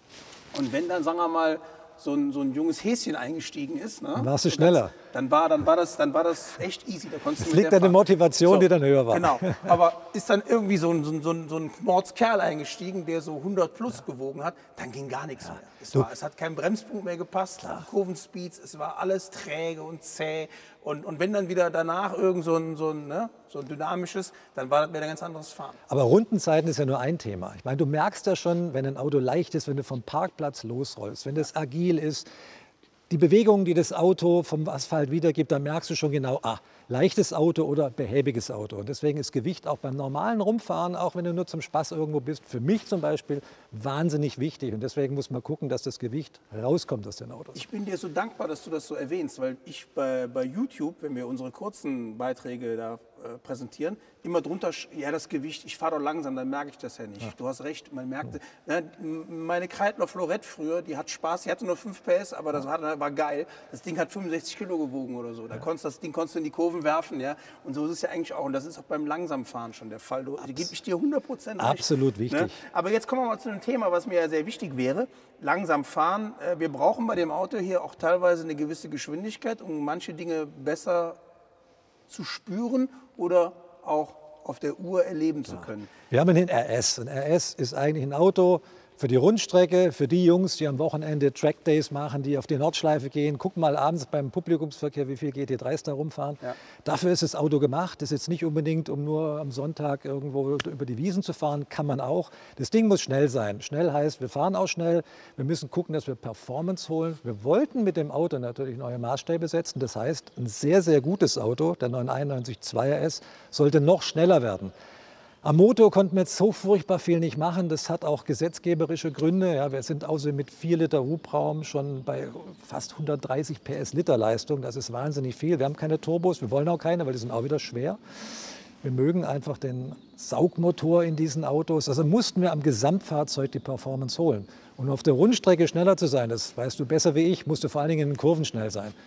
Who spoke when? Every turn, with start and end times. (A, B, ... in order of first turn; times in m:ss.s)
0:00.5-0:25.8 A
0:04.2-0:04.9 B
0:07.4-0:09.8 B
0:25.9-0:32.2 B
0:33.1-0:47.6 B
0:47.5-1:21.2 A
1:11.6-1:12.6 B
1:22.1-1:25.9 A
1:26.1-1:54.7 B
1:55.4-2:18.9 B